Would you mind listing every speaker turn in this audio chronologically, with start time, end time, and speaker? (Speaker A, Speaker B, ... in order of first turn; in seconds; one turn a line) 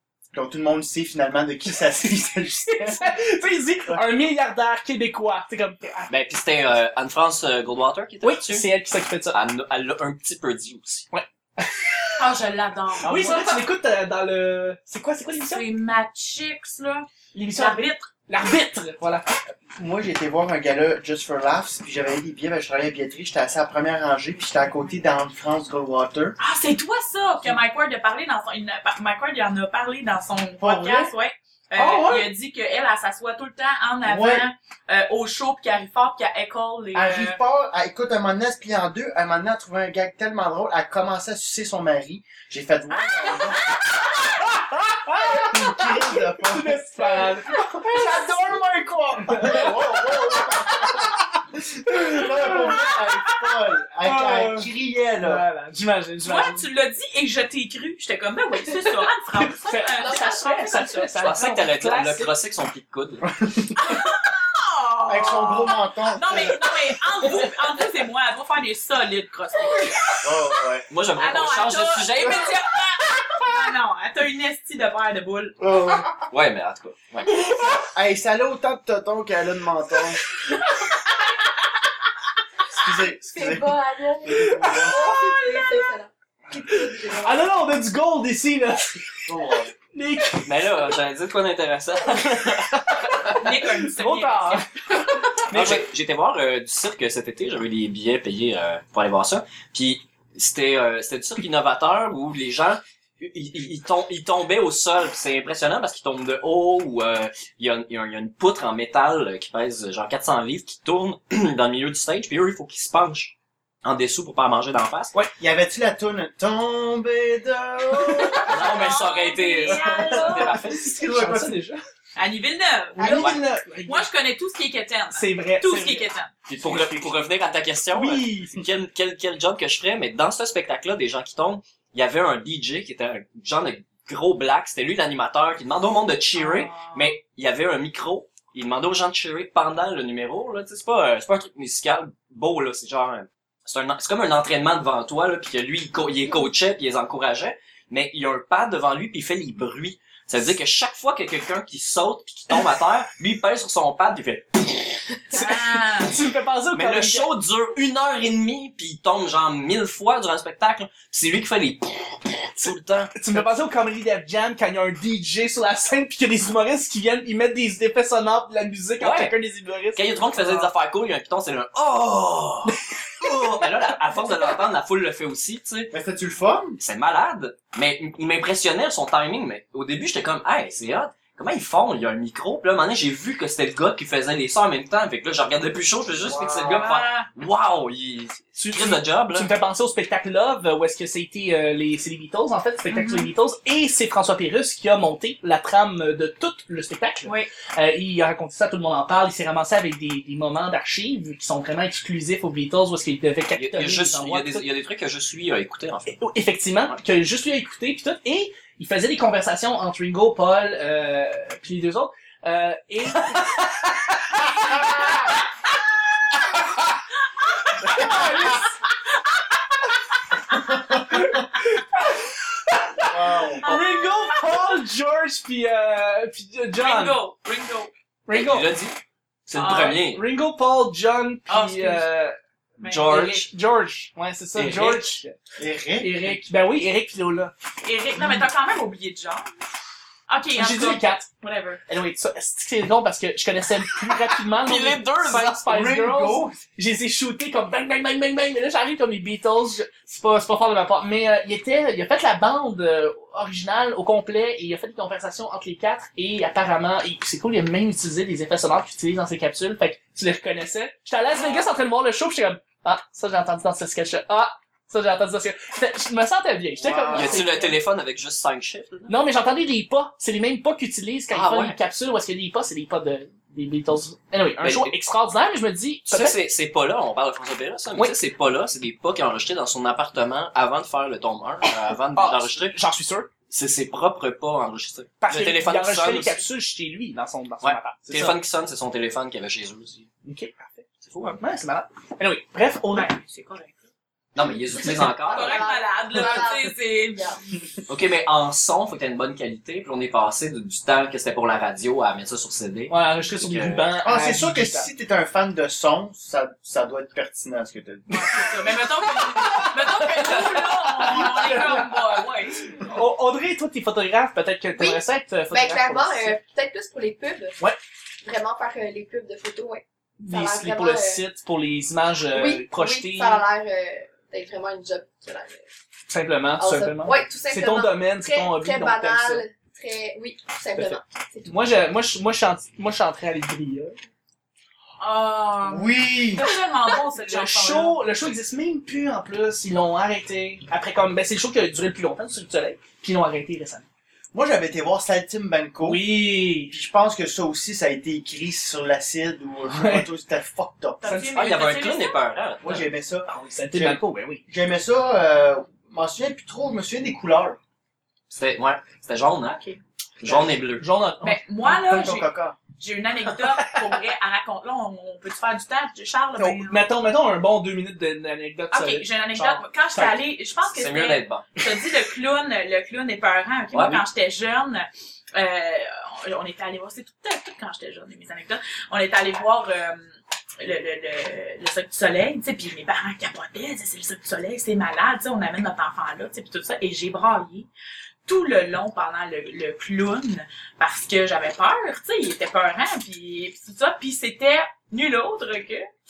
Speaker A: 0.3-3.2
Speaker B: 2.7-6.1
Speaker A: 3.9-4.1
Speaker C: 6.1-8.7
Speaker B: 8.2-9.4
Speaker C: 9.3-11.1
Speaker B: 11.1-12.3
Speaker D: 12.2-13.5
Speaker B: 13.0-15.7
Speaker A: 13.1-13.4
Speaker D: 15.5-18.1
Speaker B: 17.3-19.3
Speaker A: 19.8-26.4
Speaker D: 26.4-37.4
Speaker A: 30.6-31.1
Speaker B: 31.8-32.3
Speaker A: 34.0-34.5
Speaker A: 36.9-43.8
Speaker D: 43.0-44.2
Speaker B: 44.5-51.2
Speaker A: 45.2-55.4
Speaker B: 51.9-53.3
Speaker B: 54.0-56.6
Speaker D: 56.2-61.2
Speaker B: 59.4-62.3
Speaker E: 60.0-60.9
Speaker C: 61.2-63.3
Speaker A: 63.4-64.0
Speaker D: 63.8-70.3
Speaker A: 65.1-66.6
Speaker A: 70.2-70.8
Speaker C: 70.9-72.6
Speaker D: 71.2-75.6
Speaker A: 75.6-76.1
Speaker C: 76.3-77.5
Speaker A: 77.4-80.2
Speaker A: 82.7-85.1
Speaker E: 83.3-87.5
Speaker B: 84.7-85.4
Speaker B: 86.7-89.1
Speaker A: 89.2-89.7
Speaker B: 89.9-90.7
Speaker C: 90.4-93.3
Speaker B: 92.3-95.9
Speaker D: 93.4-94.7
Speaker C: 95.5-115.1
Speaker A: 115.4-118.7
Speaker D: 118.3-120.6
Speaker C: 118.5-120.9
Speaker A: 119.7-121.6
Speaker B: 120.4-121.8
Speaker D: 122.2-126.3
Speaker B: 123.0-124.1
Speaker C: 123.0-123.4
Speaker B: 125.1-127.2
Speaker C: 126.5-155.2
Speaker B: 127.9-128.6
Speaker D: 136.3-137.1
Speaker D: 155.3-156.2
Speaker B: 155.3-157.3
Speaker C: 156.7-163.5
Speaker B: 163.1-170.7
Speaker C: 169.0-169.3
Speaker C: 169.9-175.9
Speaker A: 175.9-176.8
Speaker C: 176.8-189.5
Speaker A: 186.2-186.9
Speaker D: 186.7-187.3
Speaker B: 188.6-204.7
Speaker D: 192.9-193.3
Speaker D: 197.2-197.5
Speaker C: 203.5-206.2
Speaker B: 206.1-215.3
Speaker D: 217.4-218.7
Speaker B: 217.8-218.7
Speaker A: 220.7-221.2
Speaker B: 220.9-227.2
Speaker A: 223.0-223.6
Speaker D: 223.6-224.8
Speaker D: 226.7-227.9
Speaker B: 228.3-228.7
Speaker C: 228.3-230.2
Speaker D: 229.5-230.0
Speaker B: 229.6-232.3
Speaker D: 231.5-232.1
Speaker D: 232.8-233.1
Speaker C: 232.8-233.5
Speaker B: 232.9-235.3
Speaker C: 234.6-235.2
Speaker A: 235.6-236.1
Speaker B: 236.0-237.5
Speaker D: 237.8-239.5
Speaker D: 240.3-241.8
Speaker B: 240.6-241.3
Speaker B: 241.9-267.7
Speaker C: 244.6-245.6
Speaker A: 245.6-246.6
Speaker A: 266.8-267.4
Speaker C: 267.1-269.2
Speaker B: 269.1-276.4
Speaker C: 271.3-271.8
Speaker C: 274.6-274.9
Speaker C: 276.1-282.8
Speaker B: 282.1-283.3
Speaker C: 283.5-286.4
Speaker B: 285.2-288.4
Speaker C: 287.6-290.1
Speaker B: 290.2-293.1
Speaker C: 291.1-291.4
Speaker D: 292.9-293.8
Speaker C: 294.3-295.7
Speaker E: 294.8-297.4
Speaker D: 295.3-297.4
Speaker C: 297.9-303.9
Speaker B: 302.9-304.9
Speaker A: 304.0-308.4
Speaker D: 308.1-312.9
Speaker B: 309.2-316.4
Speaker E: 314.7-317.6
Speaker E: 318.2-321.2
Speaker B: 320.2-323.4
Speaker E: 322.3-325.7
Speaker B: 326.1-329.4
Speaker E: 326.6-331.6
Speaker B: 330.7-334.0
Speaker D: 335.0-338.0
Speaker A: 335.6-336.5
Speaker B: 337.2-343.8
Speaker A: 344.3-351.1
Speaker B: 345.8-346.7
Speaker B: 349.7-350.1
Speaker D: 351.0-352.2
Speaker B: 351.0-351.4
Speaker C: 351.3-352.9
Speaker A: 352.6-357.6
Speaker B: 353.2-354.4
Speaker C: 358.3-359.6
Speaker D: 359.4-359.8
Speaker C: 360.2-360.9
Speaker B: 360.2-361.4
Speaker D: 361.2-366.9
Speaker A: 361.6-362.6
Speaker B: 366.4-370.2
Speaker D: 368.7-387.7
Speaker C: 370.6-371.5
Speaker C: 373.7-374.0
Speaker D: 388.2-395.9